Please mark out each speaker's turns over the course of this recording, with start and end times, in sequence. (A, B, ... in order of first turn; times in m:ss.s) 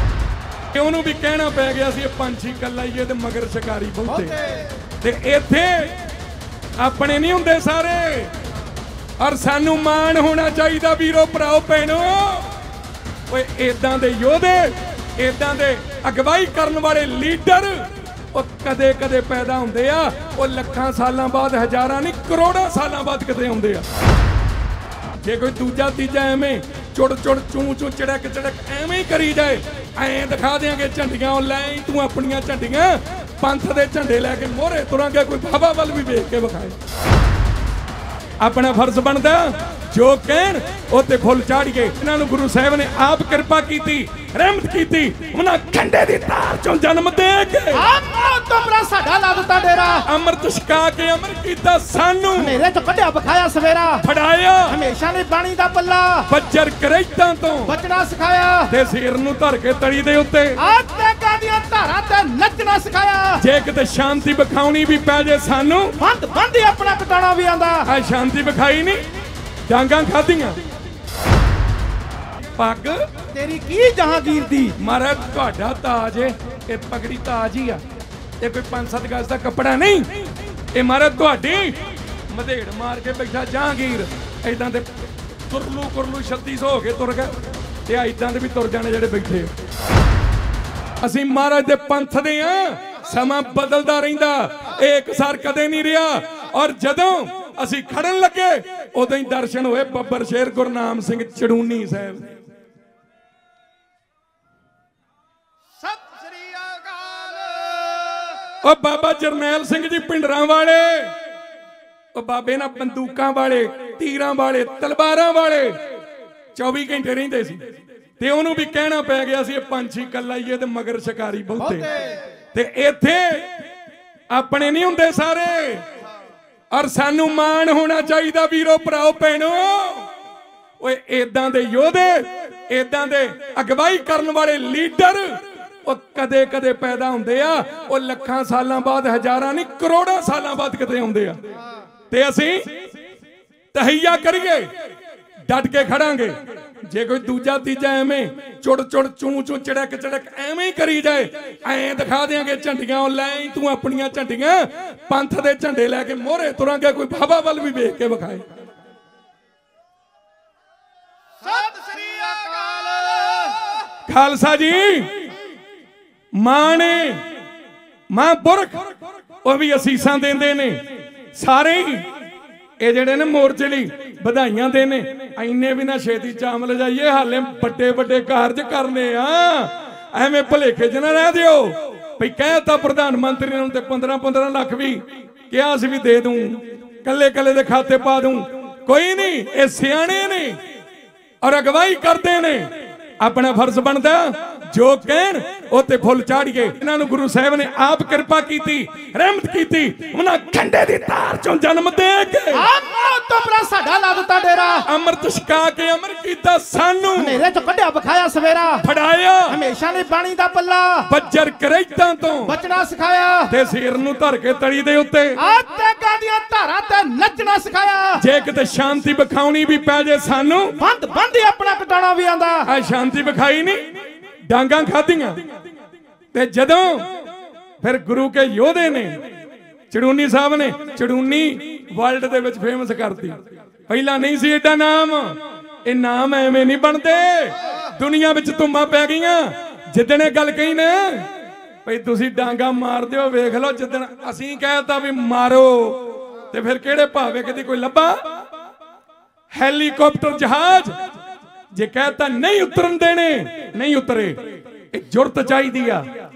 0:00.7-0:04.3 A
0:04.1-0:04.7 B
0:05.0-0:06.0 A
0:06.8-0:08.3 A
0:09.2-0:12.5 A
0:13.3-0:23.9 A
0:25.2-0:36.8 A
0:38.4-0:47.8 A
0:47.7-0:50.0 B
0:50.0-0:52.6 A
0:52.3-0:54.0 B
0:54.0-0:54.8 A
0:54.7-0:56.3 B
0:56.3-0:57.7 A
0:57.6-0:58.7 B
0:58.7-1:00.6 A
1:00.6-1:03.4 B
1:03.4-1:06.0 A
1:06.0-1:07.9 B
1:07.8-1:09.0 A
1:09.7-1:10.6 A
1:12.6-1:13.1 A
1:13.3-1:14.8 B
1:14.8-1:17.8 A
1:18.4-1:20.1 A
1:20.7-1:24.9 A
1:25.5-1:27.3 A
1:27.8-1:29.5 A
1:31.0-1:42.3 A
1:47.6-1:48.2 B
1:48.6-1:51.1 A
1:52.1-1:55.8 A
1:56.6-1:57.6 A
1:58.2-2:01.9 A
2:01.6-2:02.2 B
2:02.5-2:03.5 A
2:04.3-2:05.8 A
2:06.7-2:10.1 A
2:10.8-2:21.4 A
2:22.1-2:22.6 A
2:23.7-2:24.7 A
2:25.5-2:38.4 A
2:41.4-2:43.7 B
2:44.0-2:45.2 A
2:46.4-2:47.2 A
2:48.1-2:48.8 A
2:49.4-2:50.8 A
2:51.3-2:52.0 A
2:52.8-3:10.6 A
3:11.4-3:22.6 A
3:22.5-3:24.8 B
3:24.8-3:27.4 A
3:27.1-3:28.8 B
3:28.8-3:29.6 A
3:29.5-3:31.1 B
3:31.1-3:32.5 A
3:32.4-3:33.5 B
3:33.5-3:35.4 A
3:35.4-3:38.2 B
3:38.2-3:40.8 A
3:40.8-3:42.7 B
3:42.6-3:43.8 A
3:44.5-3:45.4 A
3:46.3-3:47.0 A
3:47.8-3:49.2 A
3:49.9-3:53.4 A
3:53.9-4:01.3 A
4:01.8-4:08.2 A
4:09.5-4:10.9 A
4:11.7-4:14.4 A
4:14.9-4:16.0 A